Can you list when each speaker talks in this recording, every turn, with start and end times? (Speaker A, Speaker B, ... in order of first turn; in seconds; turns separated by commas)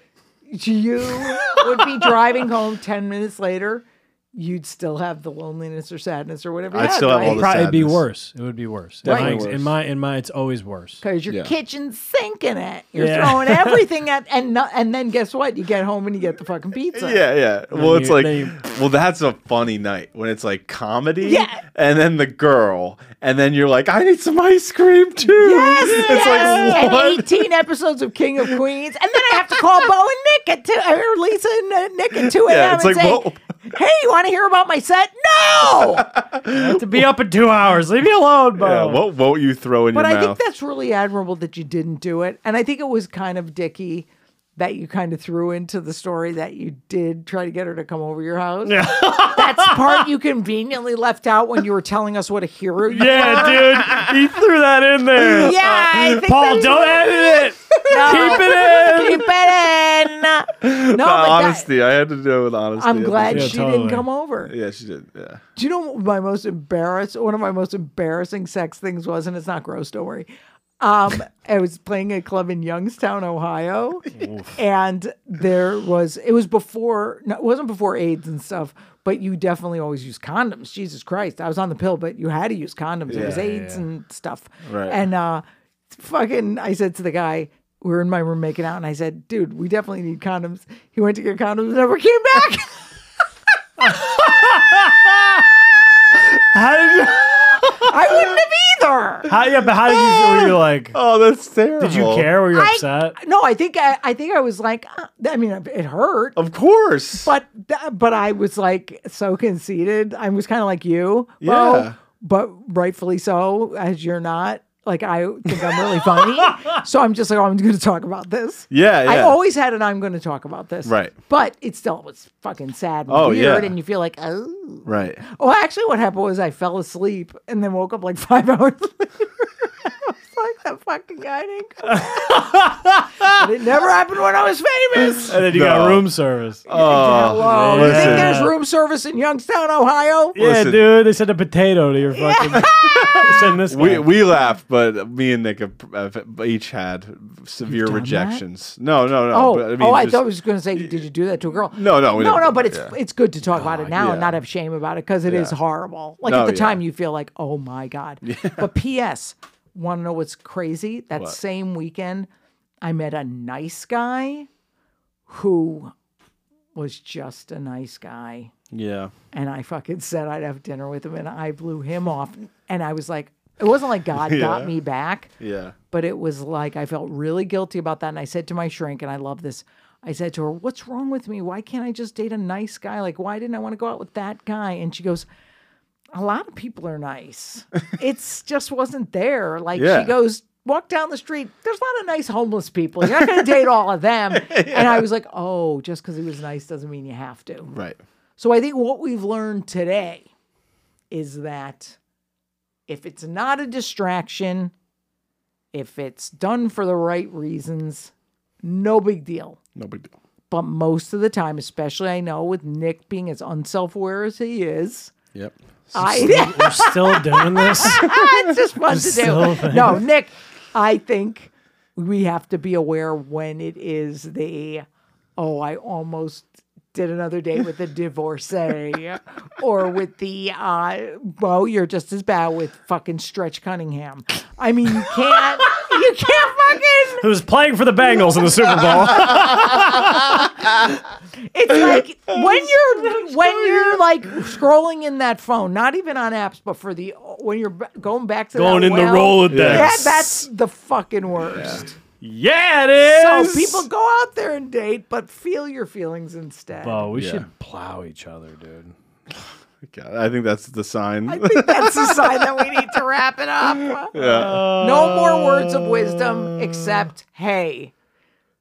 Speaker A: 0.5-7.5, Speaker B: 6.7-8.0, Speaker C: 7.2-11.0, Speaker B: 9.0-9.7, Speaker A: 9.1-9.4, Speaker A: 11.0-17.2, Speaker B: 11.3-11.5, Speaker C: 12.9-13.9, Speaker B: 16.9-27.4, Speaker C: 17.7-18.6, Speaker A: 21.2-21.6, Speaker A: 25.3-36.1, Speaker C: 26.0-26.7, Speaker B: 32.2-33.4, Speaker B: 35.8-37.1, Speaker C: 36.4-39.0, Speaker B: 38.6-40.4, Speaker A: 39.9-53.9, Speaker C: 48.6-50.1, Speaker C: 52.9-59.3, Speaker B: 53.8-54.2, Speaker B: 55.2-56.2, Speaker A: 55.2-57.2, Speaker B: 57.0-58.5, Speaker A: 57.9-61.7, Speaker B: 60.6-63.6, Speaker A: 62.8-64.5, Speaker C: 63.3-64.1, Speaker B: 64.5-65.4, Speaker A: 65.6-70.3, Speaker A: 70.8-92.8, Speaker C: 74.1-74.6, Speaker B: 83.1-83.4, Speaker C: 83.1-83.9, Speaker B: 84.7-85.0, Speaker C: 93.8-95.5, Speaker C: 96.1-97.9, Speaker A: 97.7-99.3, Speaker C: 99.3-101.0, Speaker B: 100.0-102.3, Speaker C: 101.8-103.2, Speaker A: 102.5-106.4, Speaker B: 106.4-107.3, Speaker A: 107.2-132.5, Speaker B: 111.4-112.0, Speaker C: 116.1-116.6, Speaker B: 118.7-119.4, Speaker B: 120.8-121.1, Speaker B: 123.1-123.7, Speaker B: 124.8-125.2, Speaker C: 131.9-133.3, Speaker A: 133.3-135.4, Speaker C: 135.3-136.7, Speaker B: 135.3-136.1, Speaker B: 136.7-138.5, Speaker A: 136.7-140.4, Speaker C: 137.4-138.5, Speaker C: 140.3-144.1, Speaker B: 140.4-140.8, Speaker A: 142.1-143.4, Speaker B: 142.6-150.2, Speaker A: 147.7-148.4, Speaker A: 149.3-162.3, Speaker B: 151.7-152.9, Speaker B: 153.8-154.3, Speaker B: 155.3-155.6, Speaker B: 156.2-156.8, Speaker B: 158.2-158.7, Speaker A: 162.8-164.5, Speaker A: 165.3-165.9, Speaker A: 166.8-168.5, Speaker B: 168.7-169.1, Speaker A: 169.3-175.3, Speaker B: 174.2-174.7, Speaker B: 175.4-175.8, Speaker A: 175.9-185.3, Speaker A: 186.1-197.7, Speaker B: 189.8-190.1, Speaker B: 194.3-195.1, Speaker B: 197.7-198.0, Speaker A: 198.4-200.3, Speaker A: 201.1-202.0, Speaker A: 202.9-204.7, Speaker A: 205.7-209.6, Speaker B: 209.8-210.1, Speaker A: 210.5-215.1, Speaker B: 215.3-216.3, Speaker A: 215.9-224.8, Speaker C: 216.0-218.1, Speaker B: 218.0-218.5, Speaker C: 218.9-220.0, Speaker A: 225.4-237.3, Speaker C: 237.2-240.8, Speaker A: 241.5-251.9, Speaker B: 243.4-243.9, Speaker C: 248.6-250.4, Speaker B: 249.5-250.1, Speaker B: 251.5-251.8, Speaker C: 251.7-253.9, Speaker A: 253.0-257.1, Speaker C: 256.8-258.9, Speaker B: 257.1-257.5, Speaker B: 259.3-262.7, Speaker A: 261.3-267.9, Speaker B: 264.0-264.7, Speaker C: 264.1-267.1